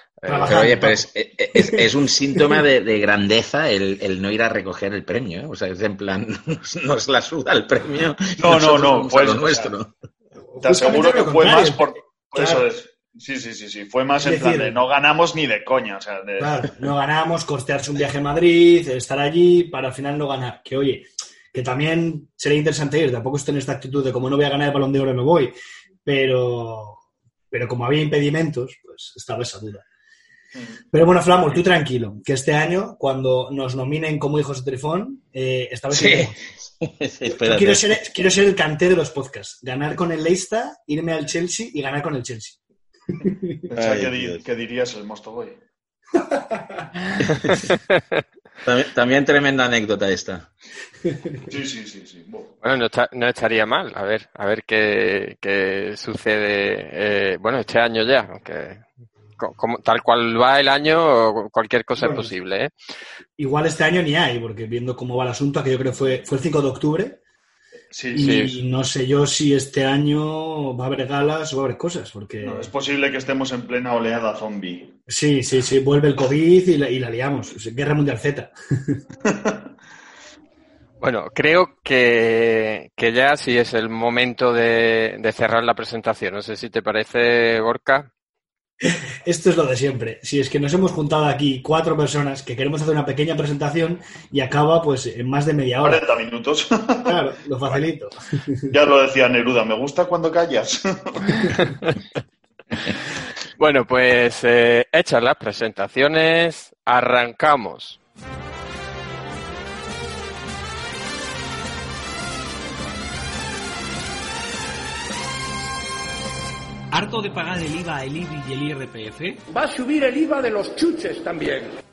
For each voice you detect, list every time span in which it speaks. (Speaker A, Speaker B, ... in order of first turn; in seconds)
Speaker A: 0.2-0.7, 52.6-58.8, 59.4-62.7, 68.2-68.6, 81.0-88.1, 103.6-108.0
Speaker B: 0.2-1.8, 10.5-12.7, 14.2-14.8, 16.4-25.5, 26.0-27.0, 27.5-29.8, 30.9-36.4, 37.2-42.6, 43.2-43.5, 46.3-46.8, 62.0-62.3, 63.4-67.2, 68.1-72.7, 75.1-79.0, 88.8-96.0, 97.1-98.7
Speaker C: 0.4-9.9, 35.9-37.9, 43.7-44.4, 48.6-50.5
Speaker D: 8.4-9.7, 10.6-16.6, 30.5-30.8, 43.7-45.6, 51.5-52.5, 67.9-68.3, 72.4-74.9, 79.2-79.7, 95.8-97.8, 98.7-101.5
Speaker E: 116.9-119.4
Speaker F: 119.5-121.7